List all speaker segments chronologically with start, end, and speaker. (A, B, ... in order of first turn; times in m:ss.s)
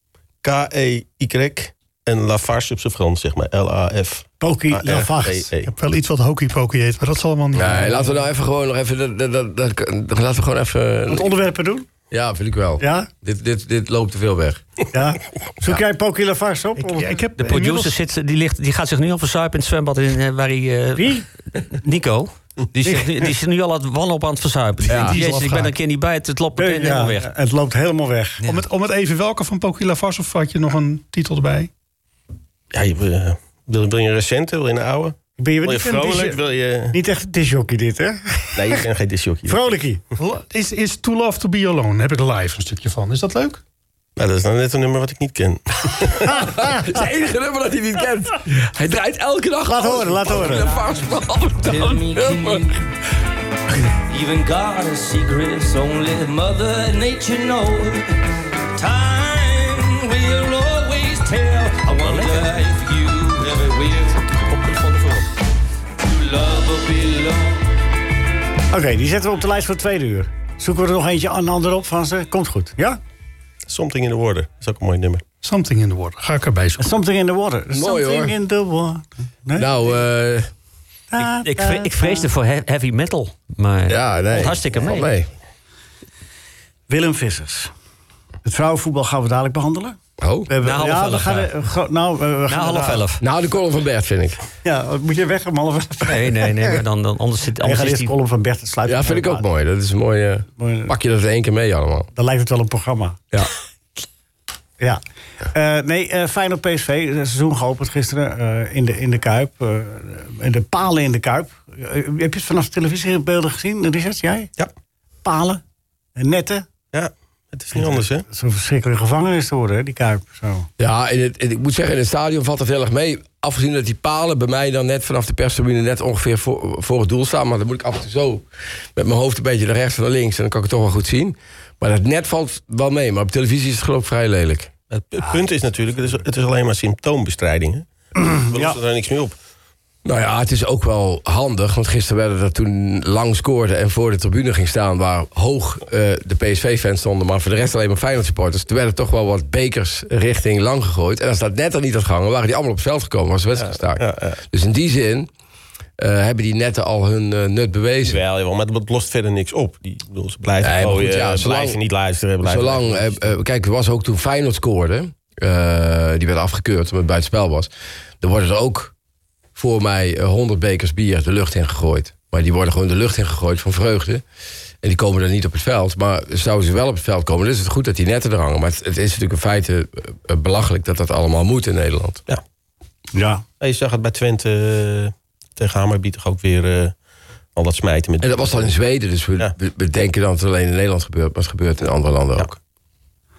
0:00.4-0:05.7 A
0:04.4-0:05.5 B
0:05.6-0:08.1 C
0:07.5-0:11.3 D
0:11.1-0:11.8 B
0:12.1-0:14.6 D
0:12.8-0:13.1 B
0:14.9-0:17.2 B
0:16.8-0:17.9 C
0:17.4-0:27.3 E
0:21.0-0:21.2 B
0:22.8-0:23.3 B
0:24.9-0:25.7 C
0:24.9-0:25.2 D
0:26.6-0:28.4 B
0:28.4-0:31.7 C
0:32.7-0:37.0 A
0:35.4-0:36.4 B
0:36.9-0:38.8 B
0:38.6-0:39.7 A
0:39.4-0:40.0 B
0:40.2-0:43.6 C
0:44.2-0:46.4 A
0:46.3-0:46.9 B
0:46.4-0:52.7 D
0:49.6-0:50.7 B
0:51.6-0:52.8 F
0:54.1-0:58.2 F
0:58.8-1:05.2 F
1:01.9-1:02.4 E
1:06.0-1:07.7 F
1:08.7-1:13.0 B
1:13.7-1:15.2 A
1:15.4-1:16.9 C
1:16.8-1:19.7 B
1:17.7-1:18.3 D
1:19.5-1:20.5 D
1:21.1-1:22.3 B
1:21.2-1:25.1 E
1:23.9-1:25.3 D
1:26.9-1:27.7 B
1:28.4-1:30.0 B
1:30.2-1:30.5 D
1:30.5-1:33.0 B
1:30.6-1:31.5 E
1:32.5-1:33.2 E
1:33.2-1:34.4 D
1:34.6-1:36.8 B
1:36.0-1:38.1 E
1:37.6-1:39.4 B
1:38.8-1:42.1 D
1:40.6-1:40.9 B
1:42.1-1:43.2 B
1:45.5-1:54.5 B
1:55.2-1:55.6 B
1:56.2-1:56.6 B
1:56.9-1:58.2 A
1:57.7-2:00.7 B
2:00.8-2:08.4 D
2:09.0-2:14.7 D
2:14.9-2:17.8 A
2:18.2-2:18.8 B
2:18.4-2:19.3 A
2:20.0-2:35.3 D
2:33.6-2:34.4 A
2:36.0-2:38.2 D
2:38.0-2:43.2 A
2:40.6-2:41.8 D
2:42.4-2:47.7 D
2:48.2-2:48.9 D
2:49.6-2:54.2 D
2:54.8-3:02.2 D
3:03.1-3:03.4 B
3:03.6-3:06.9 A
3:07.5-3:08.7 A
3:08.2-3:12.5 D